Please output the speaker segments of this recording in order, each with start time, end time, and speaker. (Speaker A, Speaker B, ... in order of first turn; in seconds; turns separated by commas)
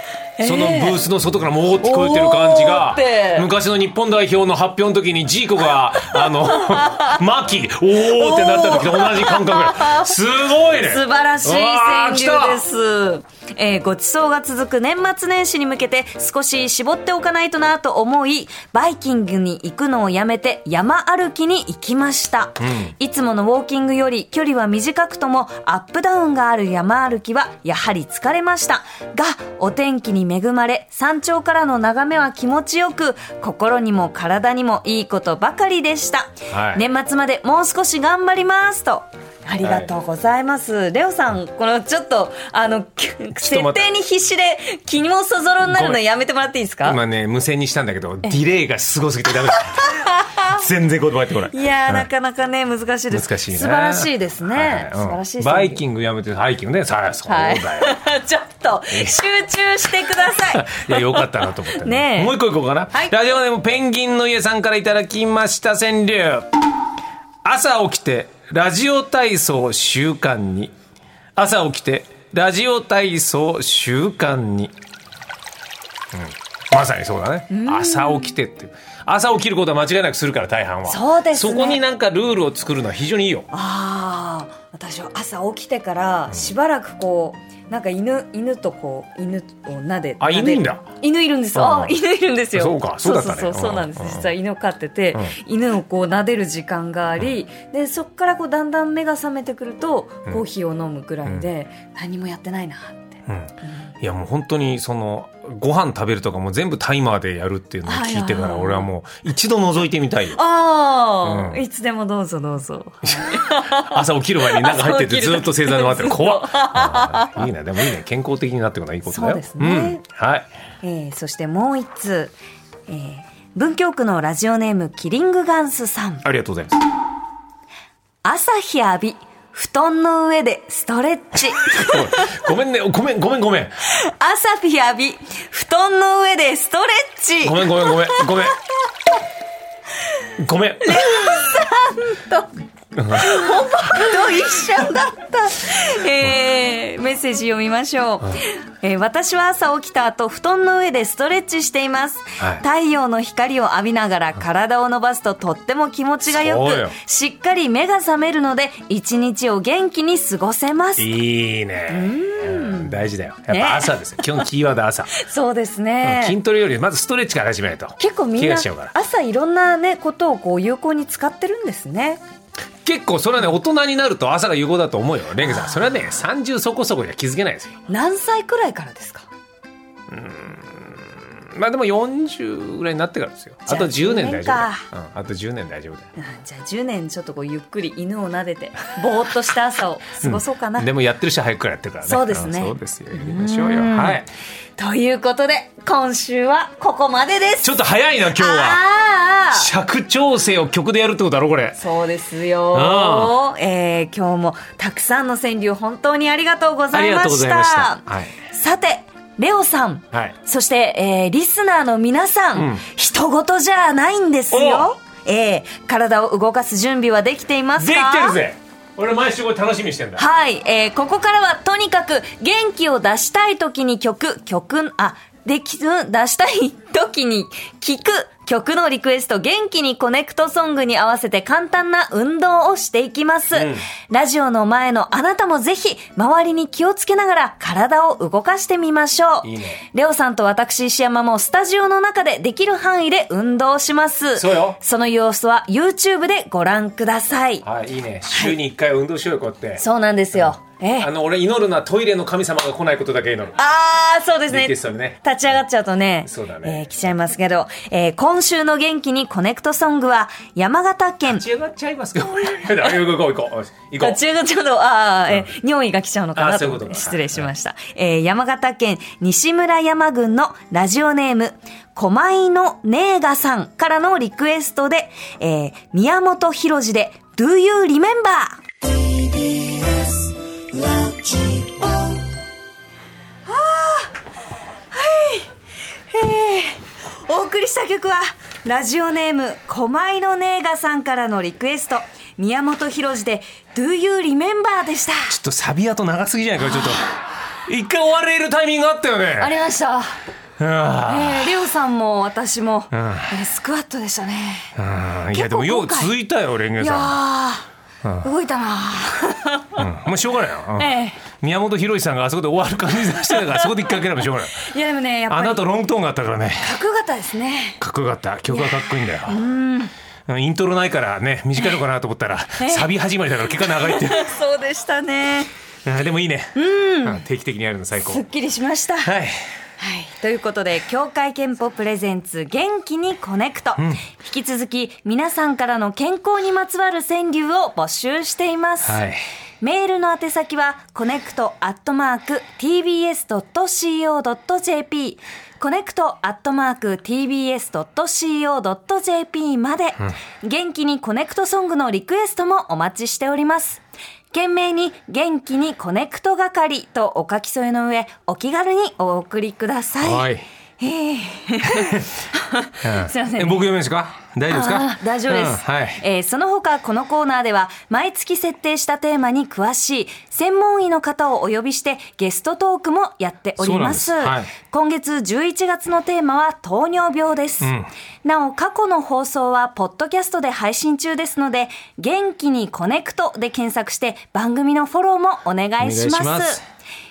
Speaker A: 0.4-1.0, Speaker B: 0.4-12.6, Speaker A: 1.8-3.5, Speaker A: 6.0-7.2, Speaker A: 8.1-10.2, Speaker A: 10.8-47.0, Speaker B: 22.6-22.9, Speaker B: 36.5-36.8, Speaker B: 39.6-39.9, Speaker B: 43.4-43.9, Speaker B: 45.6-46.0, Speaker B: 46.8-49.9, Speaker A: 49.8-50.6, Speaker B: 50.4-52.1, Speaker A: 51.5-55.8, Speaker B: 53.1-58.0, Speaker A: 57.3-62.4, Speaker B: 58.9-59.2, Speaker B: 60.4-66.5, Speaker B: 67.4-70.7, Speaker B: 71.3-74.7, Speaker B: 76.1-83.5, Speaker A: 77.5-78.3, Speaker A: 80.8-81.8, Speaker A: 83.5-103.9, Speaker B: 90.2-90.8, Speaker B: 91.5-92.0, Speaker B: 92.5-94.3, Speaker B: 103.3-110.4, Speaker A: 107.8-108.9, Speaker A: 110.3-117.5, Speaker B: 111.2-111.6, Speaker B: 113.0-120.5, Speaker A: 119.1-120.0, Speaker A: 120.8-122.3, Speaker A: 122.9-126.2, Speaker B: 126.2-126.8, Speaker A: 128.2-132.3, Speaker B: 131.6-133.8, Speaker A: 133.9-138.5, Speaker B: 137.4-138.6, Speaker B: 140.4-141.2, Speaker A: 140.8-142.5, Speaker B: 142.9-143.3, Speaker A: 143.1-161.1, Speaker B: 152.4-152.6, Speaker B: 156.3-156.9, Speaker B: 161.0-165.1, Speaker A: 161.9-163.9, Speaker A: 165.1-166.4, Speaker B: 166.0-168.9, Speaker A: 168.0-172.2, Speaker B: 172.8-177.7, Speaker A: 175.4-176.1, Speaker A: 177.9-179.3, Speaker B: 180.1-186.1, Speaker A: 183.7-184.8, Speaker A: 186.2-190.9, Speaker B: 190.2-194.3, Speaker A: 192.0-194.2, Speaker A: 194.8-199.7, Speaker B: 197.6-198.8, Speaker B: 199.5-201.8, Speaker A: 201.8-218.4, Speaker B: 202.7-203.4, Speaker B: 206.9-208.3, Speaker B: 212.6-212.8, Speaker B: 214.5-214.9, Speaker B: 217.8-220.2, Speaker A: 220.2-247.6, Speaker B: 233.5-233.9, Speaker B: 239.4-239.8, Speaker B: 244.3-244.8, Speaker B: 247.6-249.8, Speaker A: 249.8-251.1, Speaker B: 250.3-253.6, Speaker A: 253.6-261.4, Speaker B: 254.5-255.2, Speaker B: 256.2-256.8, Speaker B: 261.3-264.2, Speaker A: 264.0-278.6, Speaker B: 266.4-267.5, Speaker A: 279.3-280.1, Speaker A: 280.7-282.2, Speaker A: 283.4-284.1, Speaker A: 284.9-285.5, Speaker A: 286.1-295.4, Speaker B: 295.3-299.5, Speaker A: 299.4-300.2, Speaker B: 300.6-301.5, Speaker A: 301.0-304.7, Speaker B: 302.9-303.3, Speaker B: 304.8-307.2, Speaker A: 305.3-306.1, Speaker A: 306.8-307.6, Speaker A: 308.2-309.9, Speaker B: 309.8-314.6, Speaker A: 310.8-311.2, Speaker A: 313.3-313.7, Speaker A: 314.6-315.6, Speaker B: 315.3-316.8, Speaker A: 316.6-317.8, Speaker B: 317.8-319.4, Speaker A: 318.5-319.9, Speaker B: 320.3-324.3, Speaker A: 322.6-322.9, Speaker A: 323.6-325.5, Speaker B: 325.8-328.2, Speaker A: 326.5-327.2, Speaker A: 328.0-329.1, Speaker B: 329.0-329.4, Speaker A: 329.8-339.0, Speaker B: 333.8-334.0, Speaker B: 338.8-339.2, Speaker A: 339.6-363.7, Speaker B: 360.0-360.4, Speaker B: 362.8-366.0, Speaker A: 364.5-377.7, Speaker B: 373.6-374.5, Speaker B: 377.6-377.9, Speaker A: 378.2-386.6, Speaker B: 385.8-386.6